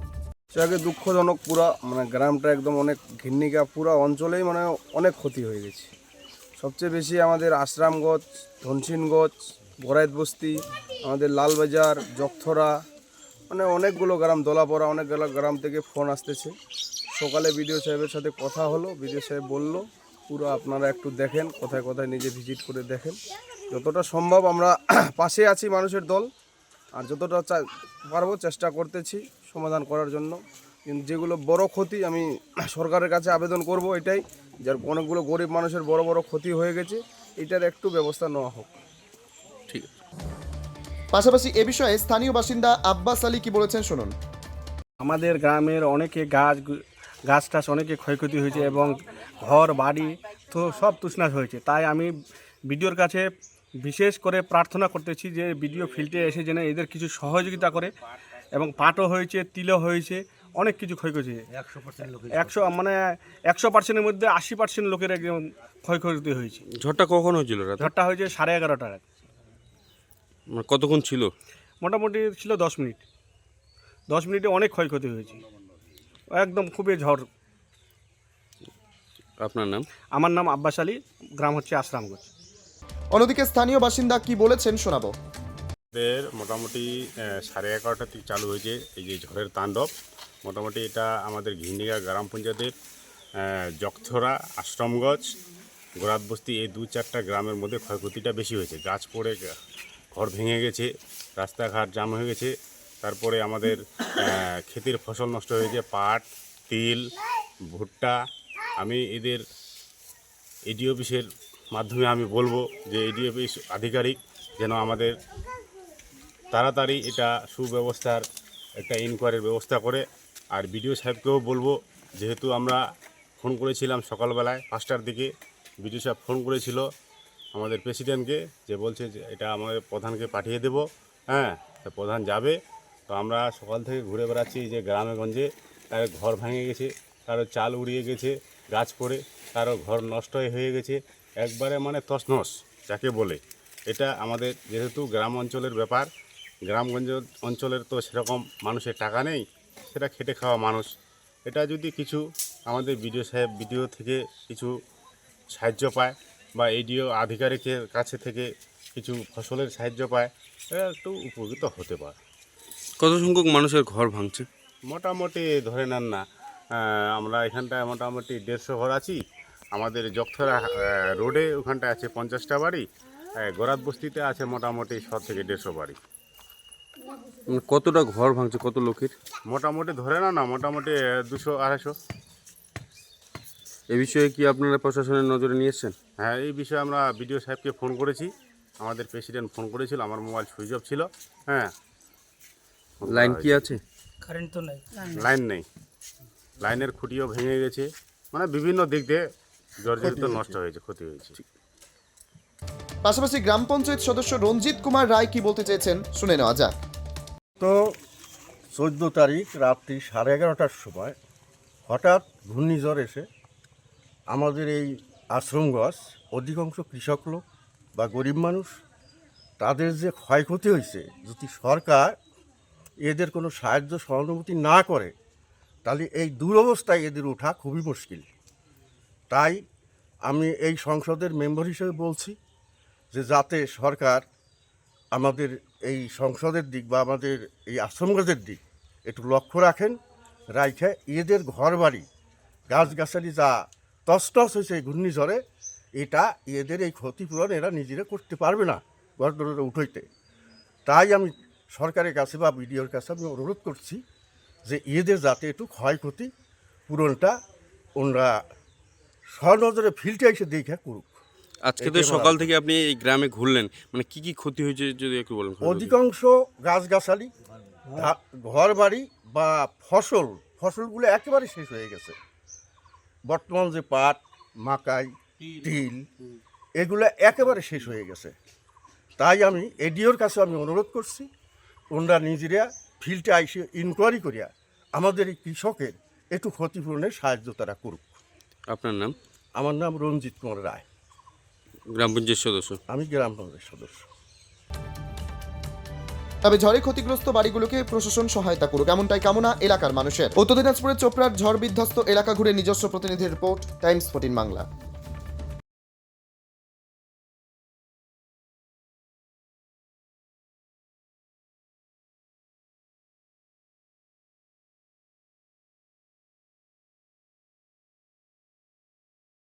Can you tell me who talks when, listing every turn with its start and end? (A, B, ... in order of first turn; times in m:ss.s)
0:00.5-0:05.9 A
0:06.6-0:12.7 A
0:13.5-0:16.6 A
0:17.2-0:23.2 A
0:23.7-0:26.3 A
0:27.0-0:38.7 A
0:41.1-0:44.1 B
0:45.0-0:52.1 C
0:52.7-0:53.3 C
0:53.8-0:57.9 C
0:58.5-1:01.4 C
1:02.3-1:06.6 C
1:06.7-1:07.9 D
1:07.8-1:09.0 C
1:10.5-1:11.3 D
1:11.8-1:13.0 C
1:14.1-1:15.4 C
1:16.4-1:17.3 C
1:19.4-1:19.9 D
1:20.1-1:22.3 C
1:23.2-1:25.1 B
1:25.9-1:26.9 E
1:27.5-1:29.9 E
1:30.4-1:32.7 E
1:33.4-1:35.3 E
1:36.0-1:39.5 E
1:40.1-1:47.0 E
1:47.7-1:48.2 E
1:48.8-1:49.4 E
1:50.7-1:55.1 E
1:56.5-1:58.2 E
1:58.8-2:00.0 E
2:00.5-2:02.8 E
2:03.4-2:05.3 E
2:05.8-2:06.8 E
2:07.6-2:12.6 E
2:13.1-2:26.1 E
2:26.7-2:30.9 E
2:31.5-2:34.7 E
2:35.6-2:42.2 E
2:43.0-2:44.5 D
2:44.9-2:46.2 E
2:46.8-2:49.2 E
2:49.7-2:52.8 E
2:53.4-2:56.0 E
2:57.5-2:59.1 D
2:59.5-3:01.9 E
3:03.9-3:05.9 D
3:06.2-3:08.3 E
3:08.8-3:11.7 E
3:13.0-3:13.8 E
3:13.1-3:13.8 D
3:15.2-3:15.6 E
3:16.6-3:19.2 E
3:19.8-3:21.4 E
3:20.1-3:20.4 F
3:23.0-3:26.7 B
3:27.6-3:28.0 F
3:28.7-3:31.2 F
3:31.9-3:33.3 F
3:34.3-3:37.4 F
3:38.0-3:38.8 F
3:39.6-3:42.2 F
3:43.0-3:45.1 F
3:45.8-3:48.3 F
3:49.3-3:49.6 F
3:50.3-3:52.4 F
3:53.1-3:54.2 F
3:55.1-4:00.0 F
4:00.5-4:02.1 F
4:02.7-4:05.4 F
4:06.0-4:10.1 F
4:10.9-4:14.0 F
4:14.7-4:16.3 F
4:16.9-4:17.4 F
4:18.0-4:18.4 F
4:19.3-4:21.2 F
4:21.6-4:25.9 D
4:21.8-4:22.5 F
4:25.6-4:27.3 F
4:27.9-4:32.2 F
4:33.3-4:36.1 F
4:36.8-4:38.3 F
4:39.2-4:41.3 F
4:41.9-4:48.2 F
4:48.7-4:49.1 D
4:49.6-4:50.8 F
4:51.9-4:52.8 D
4:52.9-4:54.0 F
4:56.4-5:04.7 B